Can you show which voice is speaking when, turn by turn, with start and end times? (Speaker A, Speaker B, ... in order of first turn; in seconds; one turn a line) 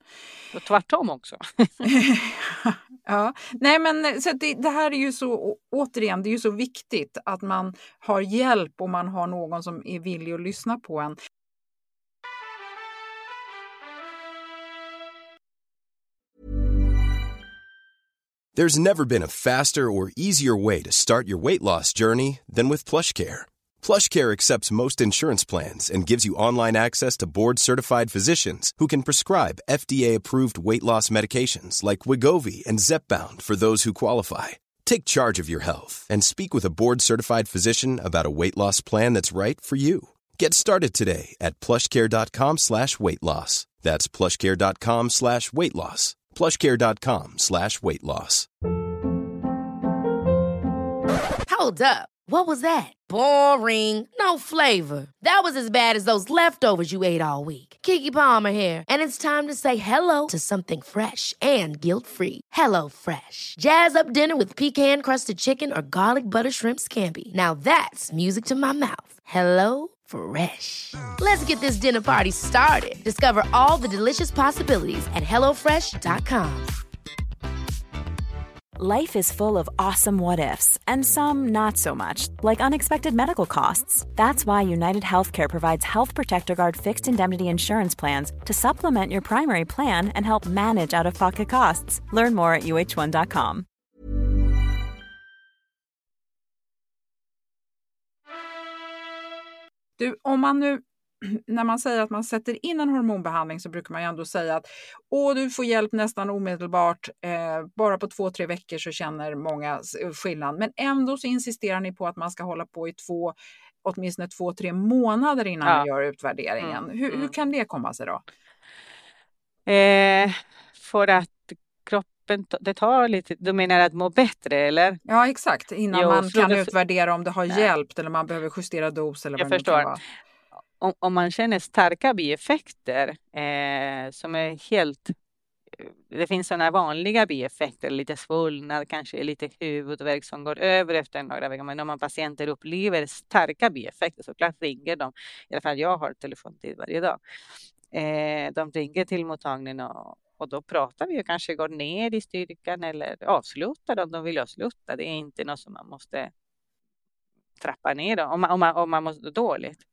Speaker A: 0.5-1.9
Speaker B: 1.8-11.2
Speaker C: 18.5-48.5
Speaker D: 51.5-76.7
Speaker E: 78.8-93.7
Speaker B: 100.0-118.2
Speaker A: 116.6-117.3
Speaker A: 119.7-125.0
Speaker B: 125.0-130.0
Speaker A: 125.9-126.7
Speaker A: 129.4-129.9
Speaker A: 130.8-135.1
Speaker A: 135.8-147.2
Speaker A: 147.9-156.3
Speaker A: 157.6-159.8